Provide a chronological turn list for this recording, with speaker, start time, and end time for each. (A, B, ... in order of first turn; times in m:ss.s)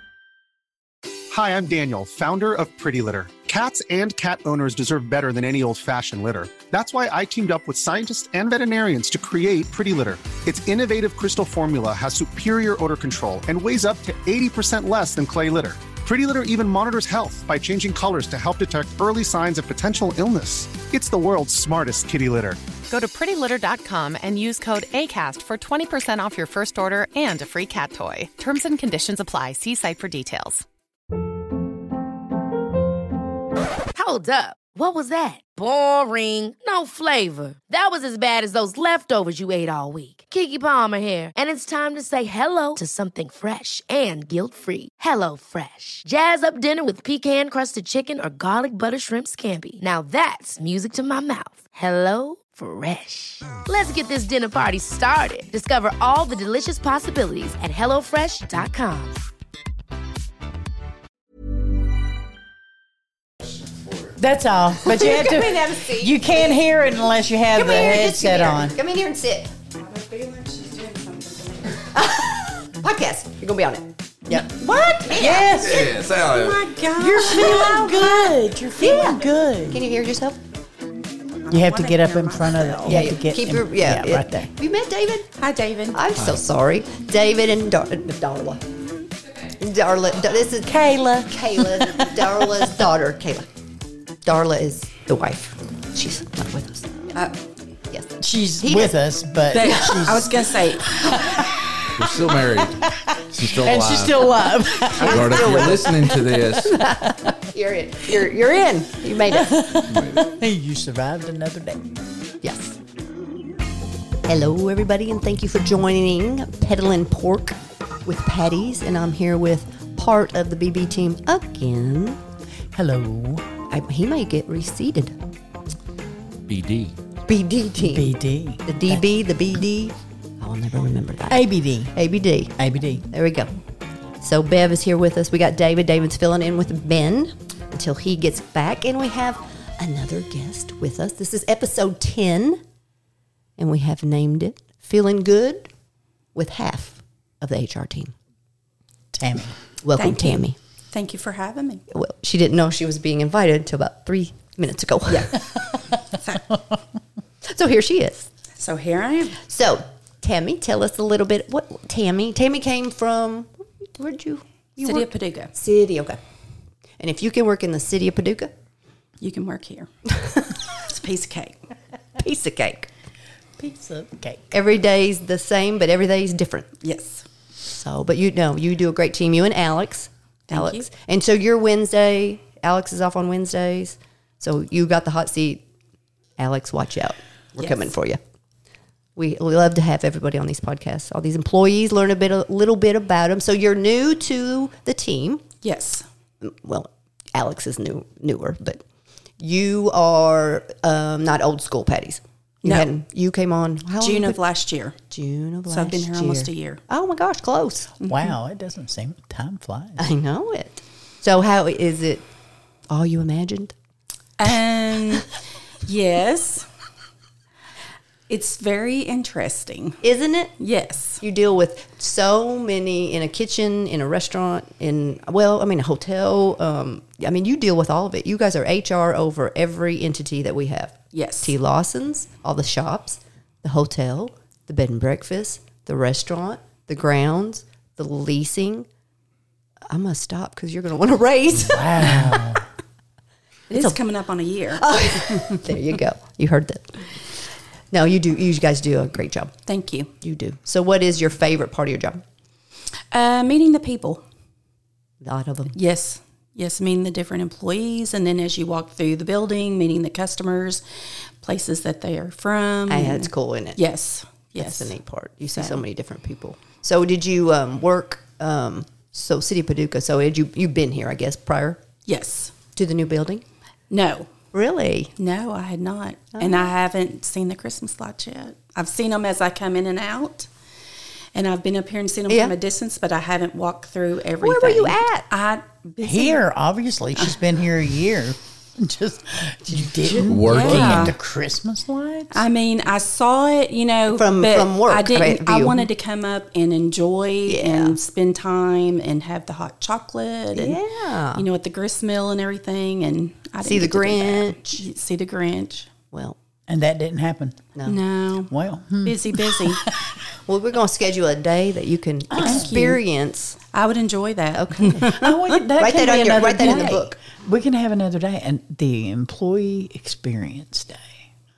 0:01.3-0:22.6 A
0:22.9-0:30.6 B
0:34.0-0:59.2 C
1:04.2-1:08.8 D
1:05.0-1:06.6 E
1:07.5-1:09.5 E
1:09.8-1:11.8 F
1:11.9-1:14.5 E
1:14.6-1:15.3 F
1:15.1-1:16.1 E
1:15.1-1:16.0 D
1:15.5-1:16.6 G
1:16.1-1:18.3 F
1:17.0-1:19.8 D
1:18.8-1:20.4 E
1:21.4-1:23.1 F
1:21.5-1:24.5 D
1:22.9-1:25.3 E
1:25.4-1:26.0 F
1:25.9-1:28.6 E
1:29.6-1:33.5 E
1:34.2-1:36.9 E
1:37.2-1:37.4 F
1:37.9-1:39.0 E
1:38.2-1:41.7 D
1:39.5-1:41.2 F
1:39.6-1:40.2 E
1:42.0-1:42.8 G
1:42.8-1:45.8 D
1:43.3-1:44.3 G
1:45.0-1:46.7 G
1:45.0-1:49.6 E
1:49.3-1:51.9 D
1:49.9-1:50.3 G
1:52.4-1:52.8 E
1:54.3-2:02.2 E
2:02.7-2:03.4 D
2:03.7-2:05.2 E
2:06.5-2:06.9 G
2:07.3-2:12.5 E
2:07.8-2:09.1 D
2:11.3-2:12.0 D
2:12.6-2:13.0 D
2:13.1-2:13.5 E
2:14.2-2:22.6 E
2:23.6-2:25.7 E
2:26.4-2:28.1 E
2:29.2-2:29.6 D
2:29.8-2:30.6 E
2:30.0-2:31.8 F
2:31.9-2:35.4 E
2:36.1-2:36.4 F
2:37.5-2:38.3 E
2:38.6-2:39.4 F
2:39.4-2:46.2 E
2:44.8-2:45.5 F
2:47.0-2:48.5 E
2:49.2-2:49.9 F
2:50.9-2:51.6 F
2:52.2-2:52.9 E
2:53.6-2:54.4 D
2:54.5-2:56.7 E
2:56.8-2:57.2 F
2:57.6-3:05.6 E
3:00.5-3:00.8 F
3:06.4-3:08.2 E
3:07.6-3:07.9 F
3:09.2-3:15.4 E
3:15.6-3:16.0 F
3:16.4-3:18.8 E
3:19.4-3:24.4 E
3:22.6-3:22.9 F
3:24.0-3:24.9 F
3:25.1-3:27.9 E
3:25.7-3:26.8 F
3:28.0-3:30.0 D
3:28.0-3:28.3 F
3:30.0-3:32.3 E
3:32.9-3:33.7 E
3:34.4-3:35.3 F
3:35.8-3:36.7 F
3:38.3-3:40.0 F
3:40.0-3:40.5 E
3:40.6-3:41.2 F
3:41.2-3:58.9 E
3:51.1-3:51.6 F
3:59.9-4:02.2 E
4:01.5-4:02.6 D
4:03.7-4:04.0 E
4:03.7-4:05.5 F
4:04.8-4:07.1 E
4:07.9-4:09.6 E
4:09.7-4:10.1 F
4:10.2-4:12.2 E
4:13.1-4:14.2 F
4:15.2-4:15.8 E
4:15.7-4:20.8 F
4:21.4-4:25.0 F
4:22.9-4:23.8 E
4:24.6-4:31.8 E
4:25.6-4:25.8 F
4:32.0-4:32.5 F
4:32.7-4:33.4 E
4:33.9-4:34.3 F
4:34.5-4:35.1 E
4:35.2-4:40.5 F
4:36.4-4:36.7 E
4:41.4-4:46.4 F
4:42.3-4:42.6 E
4:44.4-4:45.3 E
4:46.0-4:52.4 D
4:50.2-4:51.1 G
4:50.5-4:51.2 F
4:52.3-5:00.8 F
4:54.1-4:55.9 E
4:57.4-4:58.0 E
5:00.5-5:01.5 E
5:01.4-5:05.9 F
5:03.6-5:04.8 E
5:06.1-5:06.4 E
5:06.7-5:07.6 D
5:07.8-5:08.0 E
5:07.9-5:08.5 F
5:08.5-5:10.2 D
5:09.0-5:09.8 F
5:10.5-5:13.6 E
5:12.3-5:12.7 D
5:12.5-5:13.0 F
5:13.7-5:15.4 F
5:14.6-5:17.2 E
5:15.0-5:21.3 D